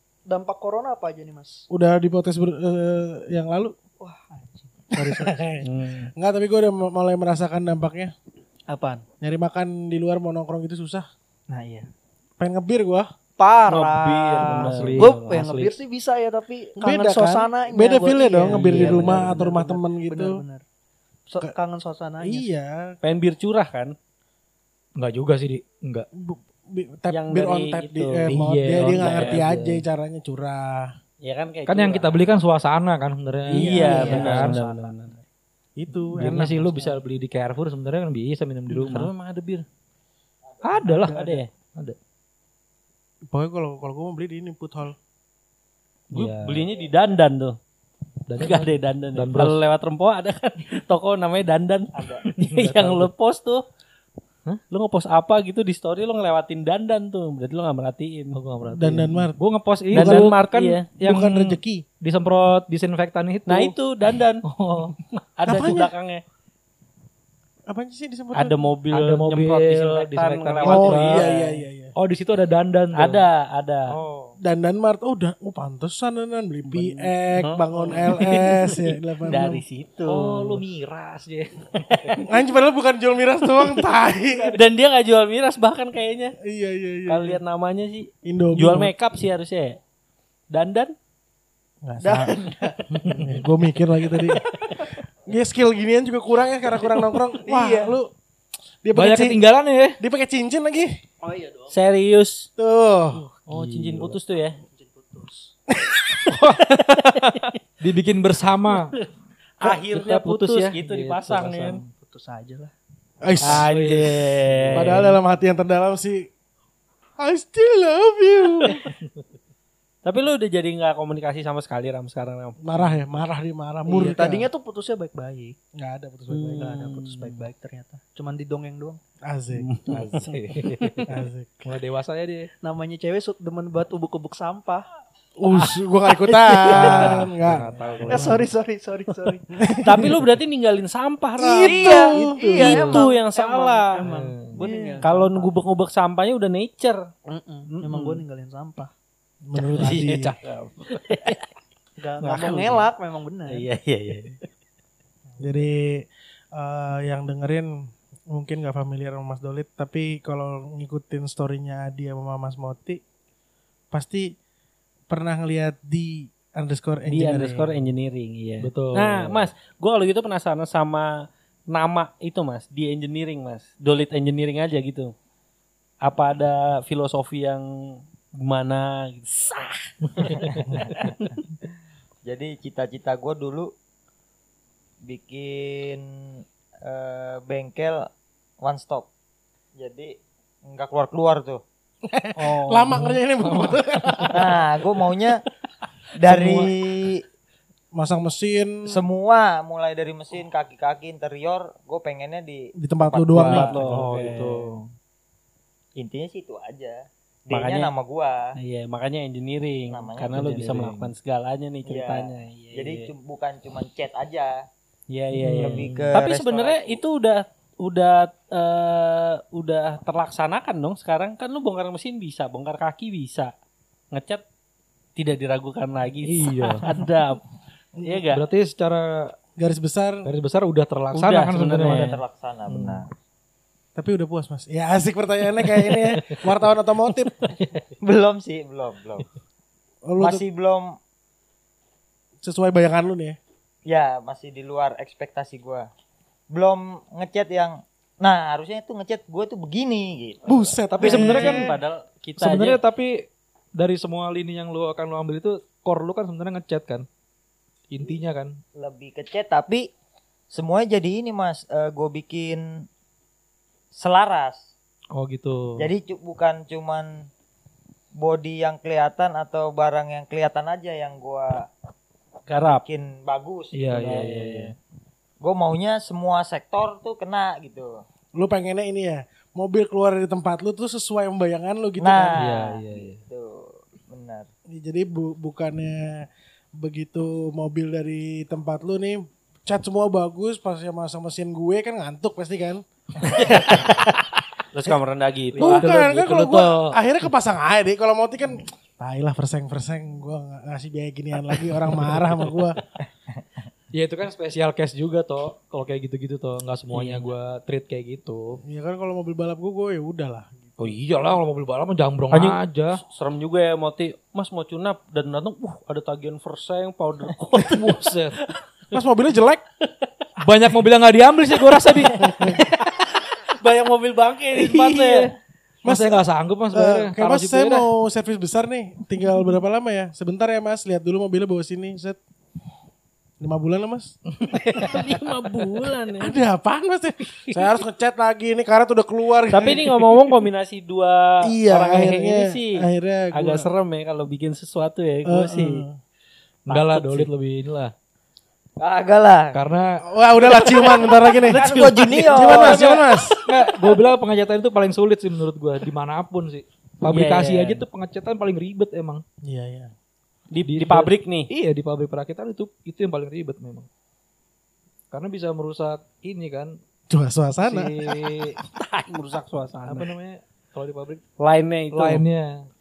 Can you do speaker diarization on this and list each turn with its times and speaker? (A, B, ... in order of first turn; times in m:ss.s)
0:00.3-0:01.7 A
0:01.7-0:03.8 B
0:04.0-0:05.4 A
0:05.0-0:08.1 B
0:05.6-0:06.1 C
0:08.7-0:09.0 A
0:09.2-0:11.1 B
0:11.5-0:11.9 A
0:12.4-0:13.1 B
0:13.4-0:20.6 A
0:13.7-0:15.1 C
0:14.6-0:15.8 D
0:16.8-0:20.4 B
0:18.4-0:19.4 C
0:21.3-0:22.5 A
0:22.2-0:22.8 B
0:23.0-0:23.9 C
0:25.0-0:26.1 D
0:26.2-0:30.9 B
0:27.1-0:29.8 C
0:28.3-0:29.6 D
0:31.2-0:32.3 C
0:31.7-0:34.6 D
0:33.5-0:35.2 C
0:33.6-0:34.6 B
0:33.6-0:35.2 A
0:35.8-0:36.6 B
0:36.2-0:39.1 D
0:36.2-0:36.7 C
0:38.7-0:39.7 C
0:40.6-0:42.0 D
0:40.8-0:41.4 A
0:40.9-0:41.5 C
0:43.3-0:45.0 B
0:46.1-0:46.7 D
0:46.1-0:47.6 C
0:48.3-0:49.6 D
0:48.4-0:53.6 C
0:52.0-0:52.2 E
0:52.3-0:53.1 D
0:54.7-0:58.4 C
0:58.3-1:03.8 D
0:58.8-0:59.4 B
0:59.9-1:00.3 B
0:59.9-1:01.0 C
1:01.0-1:01.8 B
1:03.5-1:04.4 C
1:04.4-1:05.0 D
1:05.0-1:06.2 C
1:05.5-1:05.9 B
1:07.7-1:08.5 B
1:08.3-1:11.4 C
1:08.9-1:11.4 D
1:10.6-1:11.9 B
1:12.0-1:13.2 D
1:13.0-1:14.0 C
1:13.9-1:14.4 D
1:14.4-1:19.6 B
1:16.7-1:20.6 C
1:20.1-1:22.2 D
1:21.8-1:22.3 C
1:22.2-1:24.6 B
1:23.6-1:26.4 C
1:26.4-1:27.4 B
1:27.1-1:29.8 C
1:28.2-1:28.9 B
1:30.5-1:30.9 C
1:31.8-1:34.4 B
1:32.0-1:32.7 A
1:32.9-1:33.3 D
1:35.3-1:38.1 B
1:37.4-1:38.0 A
1:38.8-1:39.4 B
1:38.9-1:40.0 D
1:40.0-1:40.9 B
1:41.2-1:41.8 A
1:41.7-1:42.5 C
1:42.6-1:43.2 B
1:43.5-1:44.6 C
1:43.5-1:44.2 D
1:44.6-1:45.5 A
1:45.8-1:46.2 B
1:46.3-1:47.6 C
1:47.8-1:48.9 D
1:48.7-1:51.8 C
1:49.8-1:51.9 D
1:51.9-1:52.7 A
1:53.2-1:53.7 B
1:53.4-1:55.2 D
1:53.4-1:55.1 C
1:54.7-1:56.3 B
1:57.2-1:58.8 B
2:00.0-2:02.6 C
2:02.6-2:04.5 B
2:03.9-2:05.6 A
2:05.8-2:06.8 B
2:06.3-2:07.4 C
2:06.6-2:09.0 A
2:09.3-2:09.7 B
2:09.6-2:11.1 C
2:09.9-2:11.1 D
2:11.1-2:11.6 B
2:11.6-2:12.5 D
2:12.6-2:14.9 A
2:15.4-2:18.4 B
2:15.5-2:20.1 A
2:16.7-2:18.4 D
2:19.5-2:20.2 B
2:19.8-2:24.0 C
2:21.4-2:22.9 B
2:21.4-2:25.5 A
2:24.0-2:24.6 D
2:24.6-2:25.0 B
2:25.0-2:27.0 C
2:27.3-2:28.9 A
2:27.8-2:28.2 C
2:29.4-2:30.4 B
2:29.6-2:31.5 C
2:32.0-2:33.7 A
2:32.2-2:32.9 C
2:33.5-2:34.5 C
2:35.4-2:43.0 B
2:43.9-2:44.4 B
2:45.1-2:47.8 B
2:47.1-2:55.1 C
2:48.6-2:49.4 D
2:56.0-3:01.0 C
3:00.2-3:01.1 E
3:02.3-3:03.7 E
3:05.0-3:06.0 E
3:06.8-3:08.1 E
3:08.6-3:09.1 E
3:09.8-3:10.2 E
3:10.7-3:11.6 E
3:12.1-3:14.4 B
3:12.4-3:14.3 C
3:14.3-3:15.4 E
3:16.2-3:17.2 E
3:16.3-3:16.7 C
3:18.0-3:19.0 B
3:18.9-3:24.0 E
3:22.8-3:23.7 B
3:23.4-3:24.9 D
3:23.5-3:24.7 C
3:26.0-3:28.5 E
3:27.5-3:27.9 C
3:28.6-3:33.1 C
3:29.9-3:30.7 E
3:30.3-3:31.1 D
3:31.9-3:34.6 E
3:35.1-3:43.5 C
3:35.3-3:36.2 D
3:35.7-3:37.0 E
3:44.1-3:44.4 C
3:45.2-3:47.4 C
3:46.2-3:46.9 D
3:48.0-3:48.4 C
3:48.3-3:49.4 D
3:49.6-3:50.3 B
3:50.2-3:52.2 D
3:51.1-3:52.2 C
3:51.9-3:53.1 E
3:52.7-3:53.0 D
3:54.0-3:57.4 B
3:56.0-3:56.5 C
3:57.2-3:57.7 C
3:58.0-3:59.3 E
4:00.1-4:00.4 B
4:00.2-4:01.0 E
4:02.4-4:03.4 B
4:03.9-4:05.9 E
4:06.5-4:10.8 E
4:10.5-4:11.7 B
4:11.0-4:11.7 D
4:11.0-4:12.8 C
4:12.4-4:13.2 D
4:13.8-4:17.0 D
4:17.9-4:18.6 D
4:18.8-4:19.9 E
4:20.5-4:22.8 E
4:24.0-4:24.7 E
4:25.1-4:25.9 D
4:25.8-4:27.3 E
4:28.2-4:31.7 E
4:32.5-4:32.8 C
4:32.7-4:34.7 E
4:33.7-4:34.7 D
4:34.0-4:34.4 C
4:35.4-4:38.0 E
4:38.4-4:42.4 B
4:42.0-4:44.5 E
4:42.4-4:43.2 D
4:44.7-4:52.8 B
4:53.3-4:53.9 C
4:53.3-4:54.0 B
4:54.7-4:55.9 C
4:55.5-4:57.0 D
4:55.6-5:02.8 B
5:04.0-5:08.6 D
5:06.9-5:07.3 C
5:08.7-5:10.9 B
5:10.8-5:13.0 D
5:12.3-5:18.6 C
5:17.6-5:18.4 D
5:18.9-5:19.6 B
5:20.4-5:22.6 D
5:21.7-5:25.3 C
5:22.2-5:22.6 B
5:24.5-5:25.3 D
5:25.8-5:27.9 D
5:25.9-5:32.2 B
5:33.4-5:34.2 B
5:34.4-5:36.3 C
5:36.2-5:40.0 B
5:39.5-5:45.8 C
5:41.4-5:43.7 B
5:45.3-5:46.0 B
5:46.7-5:47.9 D
5:46.7-5:47.2 C
5:48.8-5:49.6 E
5:49.5-5:50.0 D
5:50.0-5:53.4 B
5:50.6-5:51.3 C
5:51.5-5:52.9 E
5:52.4-5:59.2 D
5:52.7-5:53.4 C
5:57.1-5:57.8 C
5:59.4-5:59.9 B
6:00.5-6:01.5 C
6:00.7-6:03.9 D
6:05.1-6:06.8 D
6:07.1-6:07.9 B
6:07.6-6:10.1 C
6:07.9-6:08.6 D
6:09.9-6:11.2 D
6:11.4-6:12.2 C
6:11.9-6:12.7 D